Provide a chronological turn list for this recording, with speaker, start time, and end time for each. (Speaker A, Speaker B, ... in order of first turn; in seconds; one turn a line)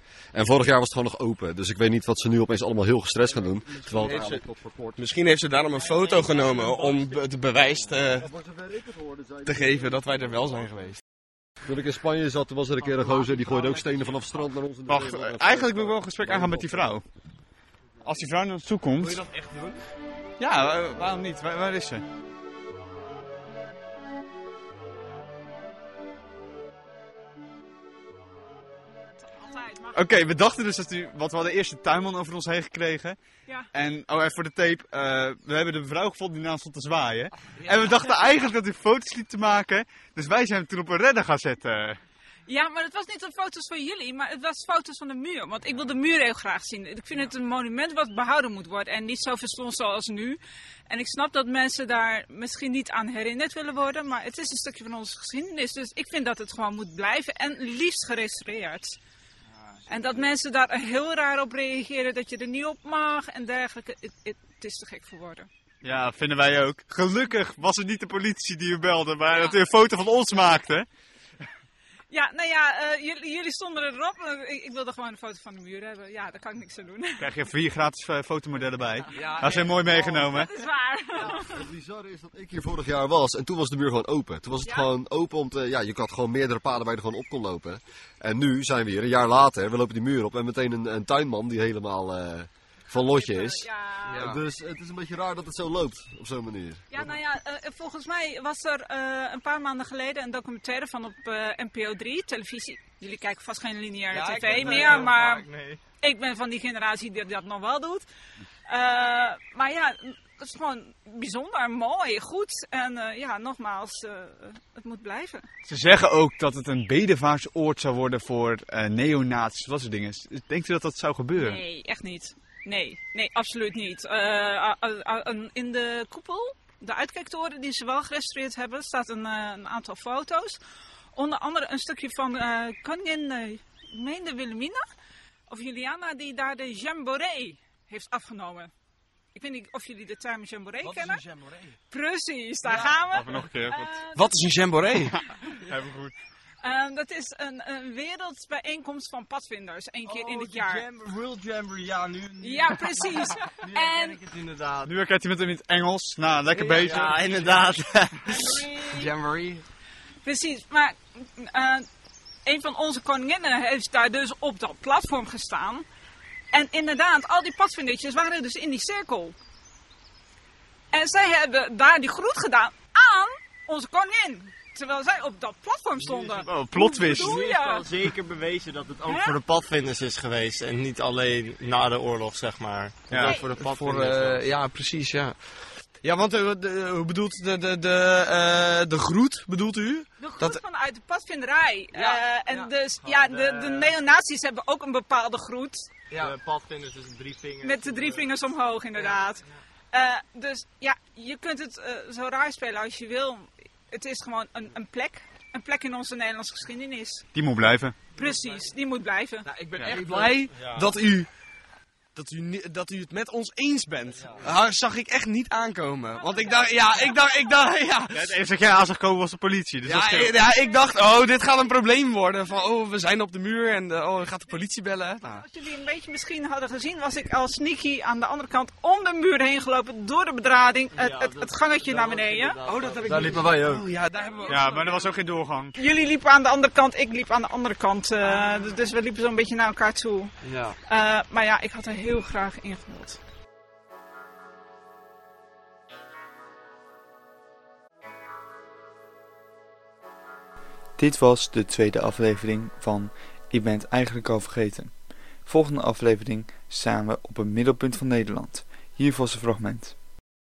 Speaker A: 0.3-5.0
Speaker B: 3.8-4.4
Speaker B: 5.0-8.3
Speaker A: 8.2-9.6
Speaker B: 9.4-11.0
Speaker A: 11.7-16.9
Speaker C: 14.9-17.0
Speaker C: 18.0-19.2
Speaker B: 19.0-19.8
Speaker C: 20.4-22.1
Speaker D: 29.3-30.0
Speaker C: 29.9-33.2
Speaker C: 33.7-42.0
Speaker D: 42.5-59.0
Speaker D: 59.9-65.5
Speaker C: 65.8-70.9
Speaker D: 72.1-77.3
Speaker C: 77.2-80.5
Speaker B: 79.1-80.0
Speaker D: 79.3-79.7
Speaker D: 80.3-81.7
Speaker A: 81.2-93.7
Speaker D: 84.6-84.9
Speaker D: 92.9-94.2
Speaker B: 94.1-94.4
Speaker A: 94.2-97.0
Speaker D: 96.9-105.5
Speaker B: 104.1-105.8
Speaker D: 106.0-108.1
Speaker D: 108.7-115.5
Speaker C: 115.7-121.6
Speaker D: 121.4-130.6
Speaker D: 131.2-134.8
Speaker D: 135.5-138.7
Speaker D: 139.3-141.2
Speaker B: 140.8-141.8
Speaker D: 141.9-144.3
Speaker C: 142.7-144.0
Speaker B: 144.1-145.2
Speaker C: 145.6-146.1
Speaker D: 146.6-150.9
Speaker E: 150.4-152.8
Speaker D: 152.4-154.3
Speaker E: 154.1-154.9
Speaker C: 154.8-157.3
Speaker E: 156.5-159.6
Speaker B: 156.8-157.1
Speaker D: 158.2-159.1
Speaker B: 159.1-159.4
Speaker D: 160.2-161.9
Speaker D: 162.5-165.8
Speaker D: 166.5-169.3
Speaker D: 170.9-178.0
Speaker E: 176.1-184.4
Speaker C: 176.4-177.4
Speaker D: 179.0-179.4
Speaker B: 183.1-185.4
Speaker C: 183.1-183.4
Speaker D: 183.2-183.5
Speaker B: 186.0-190.6
Speaker D: 190.2-195.9
Speaker B: 191.9-192.7
Speaker E: 193.1-194.0
Speaker E: 196.2-199.2
Speaker D: 197.6-207.2
Speaker C: 207.3-208.2
Speaker D: 208.1-209.5
Speaker B: 209.4-211.3
Speaker C: 209.8-210.1
Speaker E: 210.1-210.8
Speaker B: 212.2-218.3
Speaker C: 218.1-220.4
Speaker B: 219.8-225.4
Speaker D: 225.2-232.6
Speaker E: 230.9-233.3
Speaker B: 232.6-235.2
Speaker A: 233.1-233.8
Speaker D: 234.2-234.6
Speaker C: 234.5-235.8
Speaker D: 235.8-240.3
Speaker E: 240.5-240.8
Speaker D: 240.8-243.2
Speaker F: 251.0-259.9